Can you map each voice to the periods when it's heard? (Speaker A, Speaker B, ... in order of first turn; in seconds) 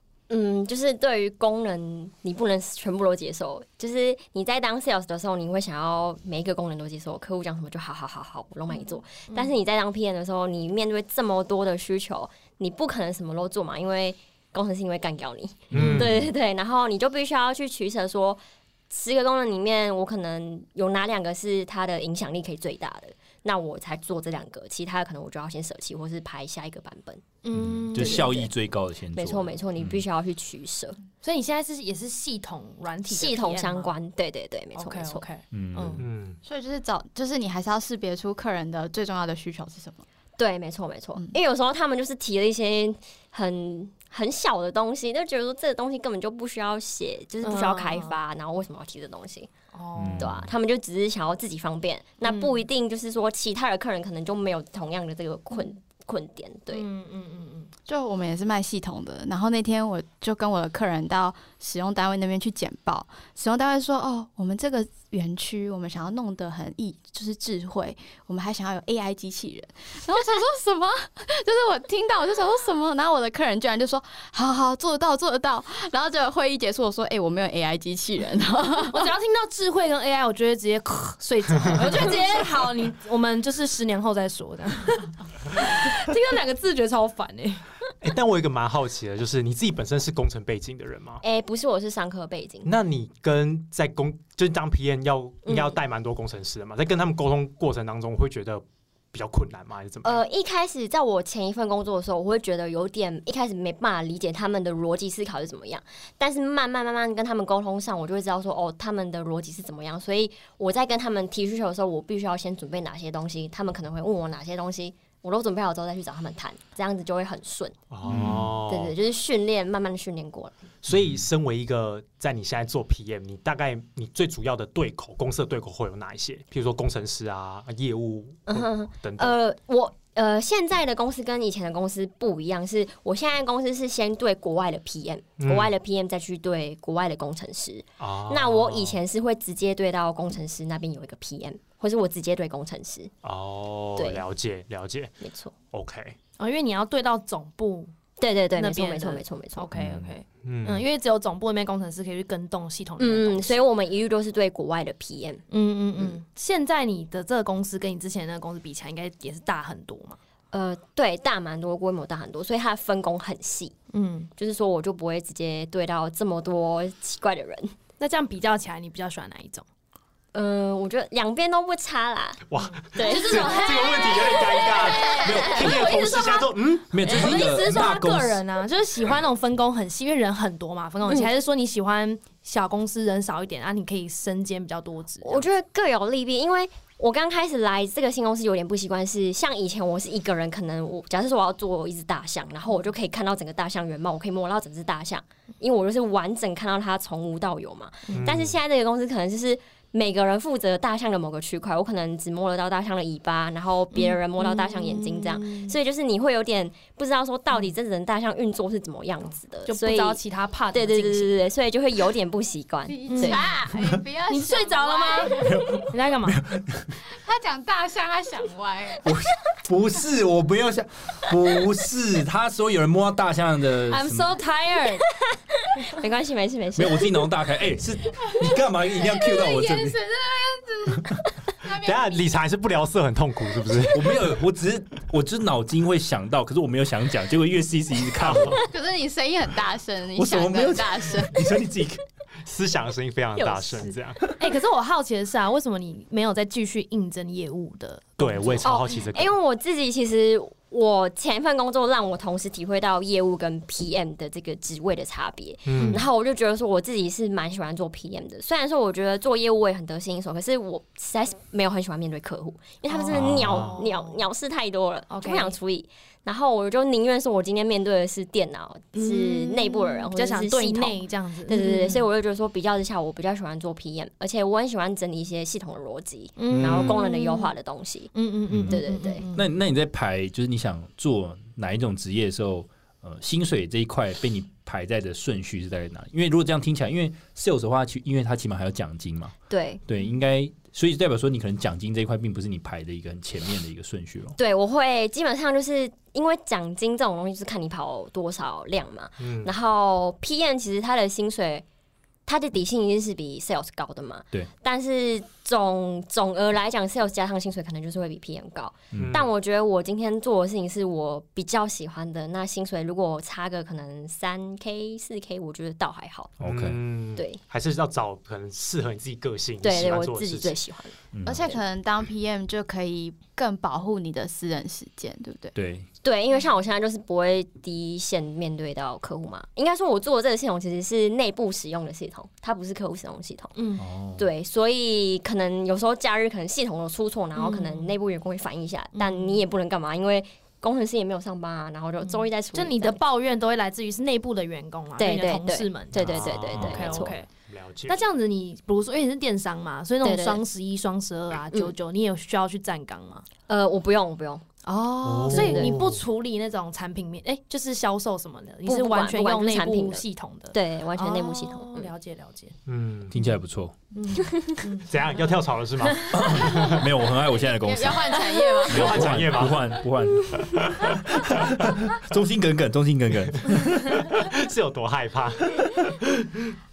Speaker A: 0.3-27.2, 27.9-28.5, 29.1-31.0, 33.1-35.2, 40.4-49.5, 50.2-56.9, 91.2-92.7, 95.4-95.8, 100.0-117.8, 118.7-120.5, 128.5-143.1, 143.9-144.2, 145.2-145.5, 148.2-149.7, 153.0-155.4, 160.5-163.7, 164.4-167.7, 170.3-174.6, 181.1-181.3, 185.2-210.2, 210.7-213.4, 225.3-227.1, 243.4-243.9, 248.6-278.1, 278.7-279.2, 289.5-289.8, 294.4-301.6, 302.2-316.3, 319.6-321.6, 326.0-333.6, 334.1-343.0, 345.0-347.1, 350.0-350.4, 353.5-354.4, 355.3-355.8, 358.6-361.9
Speaker B: 8.7-9.5, 27.4-28.4, 31.2-33.9, 34.8-36.0, 47.4-48.1, 49.7-50.3, 52.2-52.6, 56.7-57.7, 78.9-87.7, 146.4-147.9, 148.5-153.6, 155.5-160.2, 163.9-164.3, 168.0-169.6, 173.0-185.5, 198.1-198.3, 203.9-205.7, 209.7-211.4, 213.1-213.6, 214.3-216.4, 223.9-225.0, 244.3-248.7, 255.8-256.0, 262.9-264.2, 265.1-265.5, 268.9-272.0, 276.4-277.5, 278.1-279.5, 333.6-333.9, 337.4-337.9, 338.9-339.4, 342.0-347.3, 347.9-353.3, 354.6-362.6, 363.9-365.0, 365.9-366.4
Speaker C: 15.7-16.3, 36.0-36.4, 81.6-81.9, 88.0-91.2, 92.6-100.2, 117.9-118.9, 120.8-129.4, 135.4-135.7, 138.0-139.0, 143.2-145.2, 145.7-146.2, 150.4-150.8, 172.5-177.2, 198.1-198.6, 231.8-234.2, 238.2-238.6, 242.4-244.2, 248.2-249.3, 255.6-256.1, 263.1-263.8, 276.5-277.0, 299.2-299.5, 308.9-309.3, 316.4-320.6, 345.9-348.0, 355.0-356.0, 362.6-363.2, 364.9-366.8, 368.7-369.8, 370.4-371.2, 373.9-376.3
Speaker D: 15.8-16.0, 27.5-30.0, 35.5-36.1, 50.0-50.5, 118.0-118.5, 120.9-121.2, 149.7-150.1, 175.2-176.0, 176.9-178.4, 215.3-217.0, 219.0-224.3, 226.8-230.0, 233.9-238.6, 240.2-242.0, 278.5-278.8, 279.3-289.3, 289.9-294.4, 308.9-309.2, 316.4-316.8, 321.1-321.5, 325.6-325.9, 333.8-334.2, 363.1-363.7, 366.1-374.1
Speaker E: 36.4-40.0, 57.9-79.1, 212.9-215.8, 217.1-219.1, 229.0-232.3, 238.7-241.3, 321.2-325.6, 367.6-369.4